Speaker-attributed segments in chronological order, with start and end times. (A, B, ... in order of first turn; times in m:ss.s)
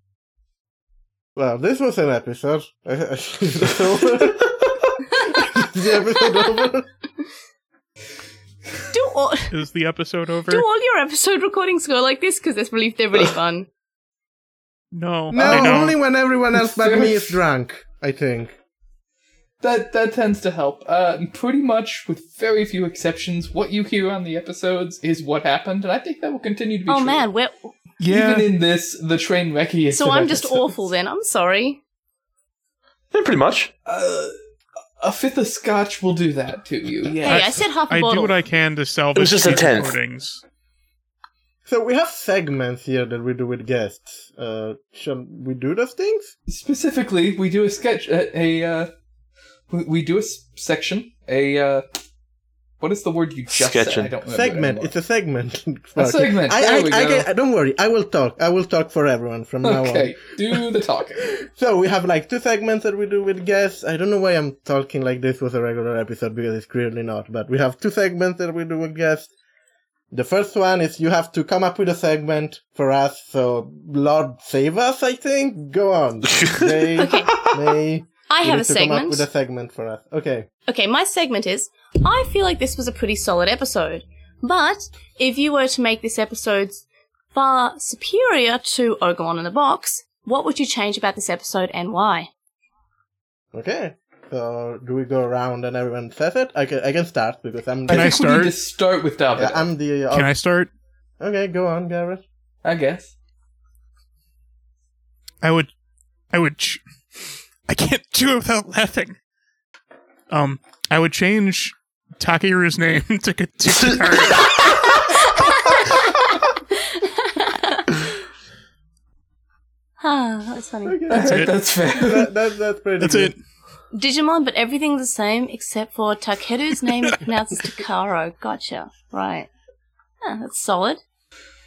0:01.4-0:06.9 A
0:08.9-0:09.5 B
0:09.5-0:10.6 C
0:10.5-0:13.7 B
0:14.9-0:16.0 C
0:15.3-0:18.6 A
0:16.7-0:17.4 D
0:19.6-0:27.2 D
0:26.9-0:27.7 B
0:28.0-0:28.5 C
0:28.1-0:30.8 D
0:29.9-0:31.8 B
0:33.1-0:33.7 E
0:33.8-0:34.3 D
0:35.0-0:37.3 D
0:37.2-0:38.4 B
0:37.2-0:40.4 C
0:39.1-0:40.0 E
0:41.6-0:46.3 A
0:46.5-0:48.9 D
0:49.7-0:51.8 D
0:52.8-0:54.9 D
0:53.5-0:54.1 E
0:54.2-1:00.2 A
0:56.0-0:57.3 D
0:59.6-1:01.3 D
1:01.3-1:09.3 A
1:10.1-1:20.5 A
1:16.4-1:17.5 E
1:17.0-1:17.3 B
1:18.3-1:19.2 B
1:20.7-1:32.3 B
1:33.5-1:38.2 A
1:37.9-1:38.5 C
1:37.9-1:39.6 D
1:39.4-1:40.3 A
1:40.1-1:40.7 C
1:41.2-1:42.2 A
1:42.6-1:43.1 D
1:45.4-1:45.7 C
1:46.3-1:46.8 C
1:47.7-1:49.2 C
1:50.3-1:55.8 C
1:53.7-1:54.8 E
1:55.4-1:56.0 B
1:56.8-1:58.0 B
2:00.0-2:01.0 B
2:00.8-2:03.3 A
2:01.1-2:02.3 D
2:01.2-2:01.5 C
2:03.0-2:03.4 C
2:03.9-2:09.5 B
2:10.2-2:11.0 B